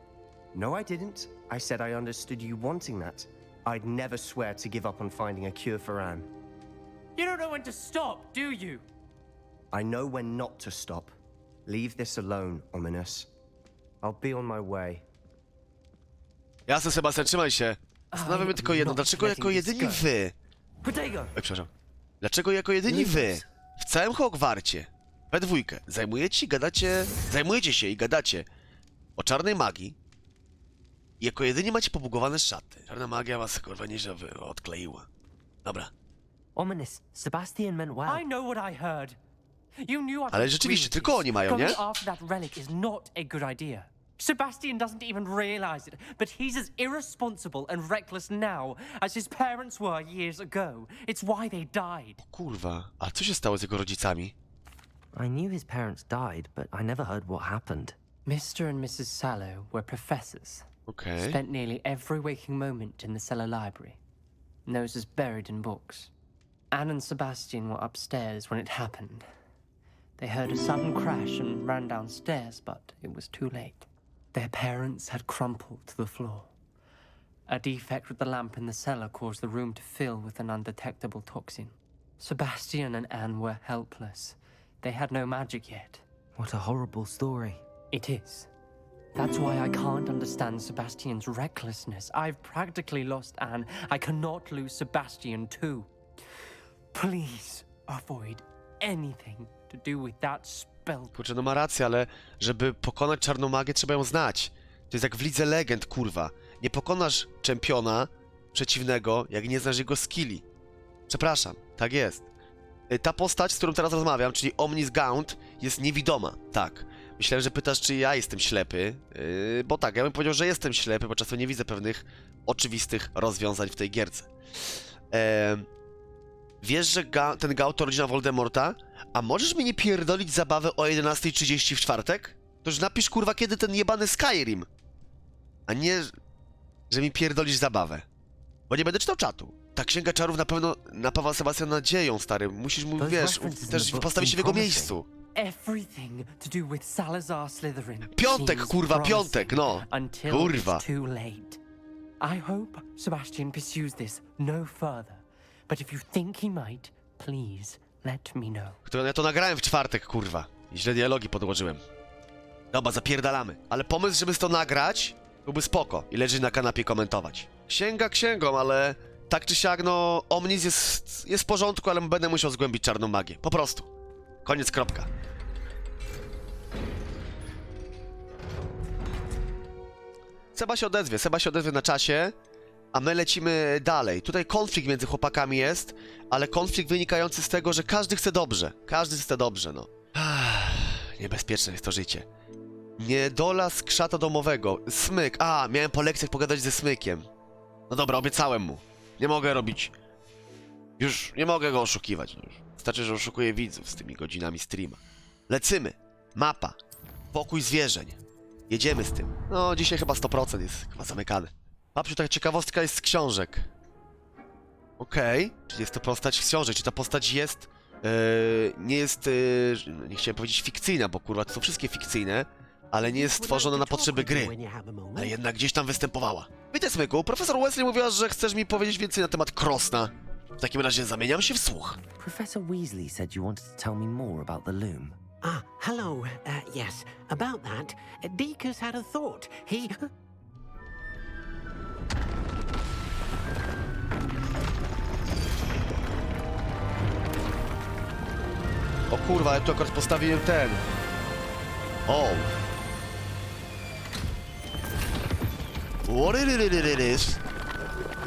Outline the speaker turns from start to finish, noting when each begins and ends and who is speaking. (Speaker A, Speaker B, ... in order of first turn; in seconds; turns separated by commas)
Speaker A: 0.5-6.3, Speaker B: 7.2-8.8, Speaker A: 9.7-11.1, Speaker A: 11.7-13.3, Speaker A: 14.0-15.0, Speaker C: 16.7-20.3, Speaker B: 18.1-20.1, Speaker D: 20.8-21.3, Speaker C: 21.3-21.7, Speaker C: 22.2-28.5, Speaker D: 22.9-23.4, Speaker C: 29.2-29.9, Speaker C: 31.2-35.1, Speaker C: 35.6-35.9, Speaker D: 36.5-38.2, Speaker B: 38.0-39.2, Speaker B: 39.8-52.2, Speaker C: 40.3-41.8, Speaker C: 52.2-54.3, Speaker D: 55.1-58.0, Speaker B: 58.2-64.0, Speaker C: 60.9-61.4, Speaker B: 64.7-66.1, Speaker B: 66.7-69.2, Speaker B: 70.2-76.5, Speaker B: 77.5-86.0, Speaker D: 86.3-87.6, Speaker B: 87.9-88.5, Speaker B: 89.1-95.9, Speaker B: 96.9-101.1, Speaker C: 101.1-110.4, Speaker C: 111.1-112.3, Speaker C: 112.9-124.3, Speaker C: 125.1-125.7, Speaker C: 126.6-134.7, Speaker C: 135.7-136.1, Speaker C: 136.9-138.1, Speaker C: 138.7-145.1, Speaker D: 143.0-145.0, Speaker B: 145.3-151.6, Speaker C: 148.1-150.8, Speaker B: 152.2-158.8, Speaker C: 158.8-161.8, Speaker C: 162.7-173.9, Speaker C: 174.4-175.1, Speaker C: 180.5-182.3, Speaker C: 182.9-192.3, Speaker C: 193.0-197.3, Speaker C: 197.9-199.9, Speaker C: 201.0-206.8, Speaker C: 207.3-213.7, Speaker C: 215.0-224.5, Speaker E: 223.0-225.4, Speaker C: 225.2-232.0, Speaker D: 232.2-235.2, Speaker E: 235.4-240.1, Speaker C: 249.1-250.8, Speaker C: 252.1-252.5, Speaker C: 256.1-257.4